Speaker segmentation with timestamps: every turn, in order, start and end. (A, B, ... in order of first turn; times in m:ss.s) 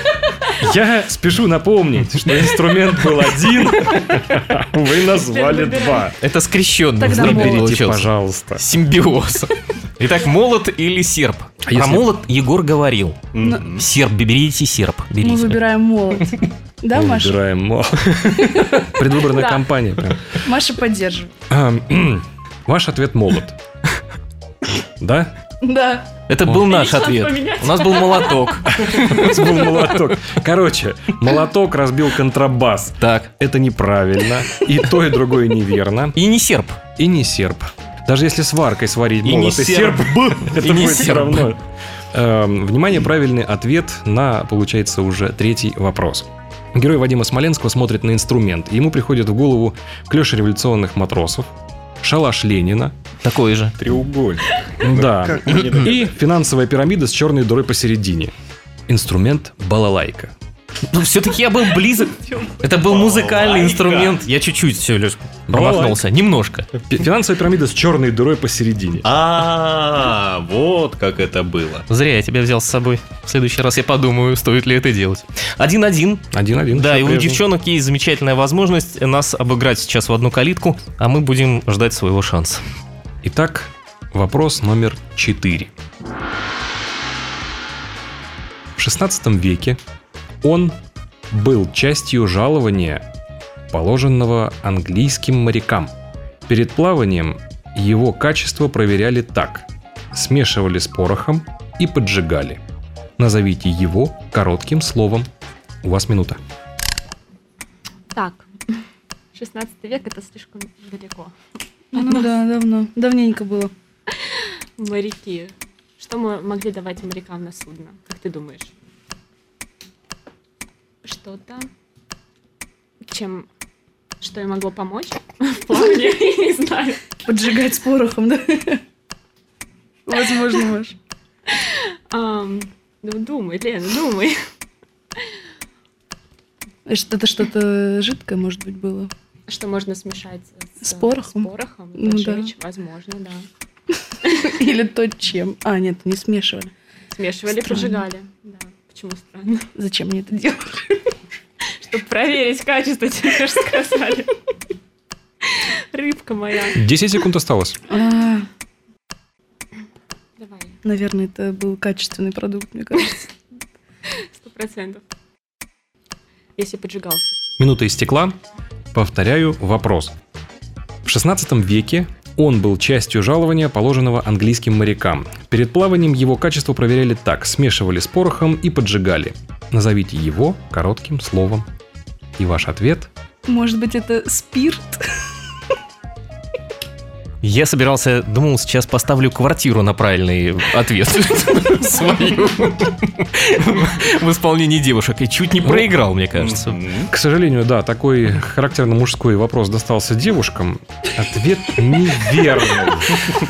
0:00.5-0:06.2 A
0:05.2-0:06.1 B
0:06.2-0:13.2 C
0:07.0-0:07.6 D
0:07.1-0:08.6 A
0:11.6-0:12.1 A
0:13.3-0:13.8 E
0:13.8-0:15.6 C
0:15.2-0:17.4 D
0:16.9-0:20.3 A
0:19.3-0:19.7 B
0:20.4-0:21.3 D
0:21.5-0:23.6 A
0:25.0-0:25.3 A
0:25.6-0:26.1 D
0:26.3-0:29.2 C
0:26.6-0:29.5 B
0:28.7-0:36.2 A
0:33.0-0:33.3 C
0:36.1-0:36.8 C
0:37.0-0:41.6 A
0:39.2-0:41.1 E
0:40.6-0:41.5 C
0:42.1-0:51.5 A
0:52.0-0:52.9 A
0:53.2-0:53.7 C
0:53.8-0:56.1 E
0:54.8-0:58.3 A
0:58.9-1:00.3 A
1:00.9-1:06.7 C
1:02.8-1:04.2 E
1:05.5-1:06.0 A
1:06.9-1:09.1 A
1:09.0-1:11.8 E
1:11.9-1:22.6 C
1:16.3-1:17.4 A
1:23.2-1:25.7 A
1:28.8-1:29.8 A
1:30.4-1:30.7 A
1:31.3-1:33.0 A
1:33.7-1:35.9 A
1:36.5-1:42.6 A
1:43.2-1:45.3 A
1:45.8-1:46.4 A
1:48.1-1:48.5 B
1:49.3-1:51.3 B
1:51.9-1:53.7 D
1:51.9-1:52.4 B
1:54.4-1:58.7 B
2:01.0-2:01.7 B
2:03.0-2:03.5 B
2:04.2-2:07.0 B
2:07.2-2:08.8 D
2:10.0-2:11.0 D
2:11.6-2:14.4 B
2:16.8-2:19.1 D
2:19.5-2:23.5 B
2:20.8-2:22.5 D
2:24.2-2:24.6 B
2:24.4-2:26.7 D
2:27.1-2:29.7 B
2:27.4-2:28.1 D
2:29.7-2:31.0 D
2:31.7-2:34.3 B
2:35.5-2:36.8 B
2:36.7-2:37.8 A
2:37.9-2:38.5 D
2:40.4-2:40.8 B
2:40.8-2:43.2 D
2:44.1-2:45.0 B
2:46.6-2:47.3 B
2:47.6-2:48.4 A
2:48.9-2:50.1 A
2:51.0-3:01.6 A
3:02.4-3:03.1 A
3:03.4-3:05.0 D
3:07.4-3:16.8 C
3:15.6-3:15.9 A
3:16.3-3:17.1 E
3:17.1-3:23.3 A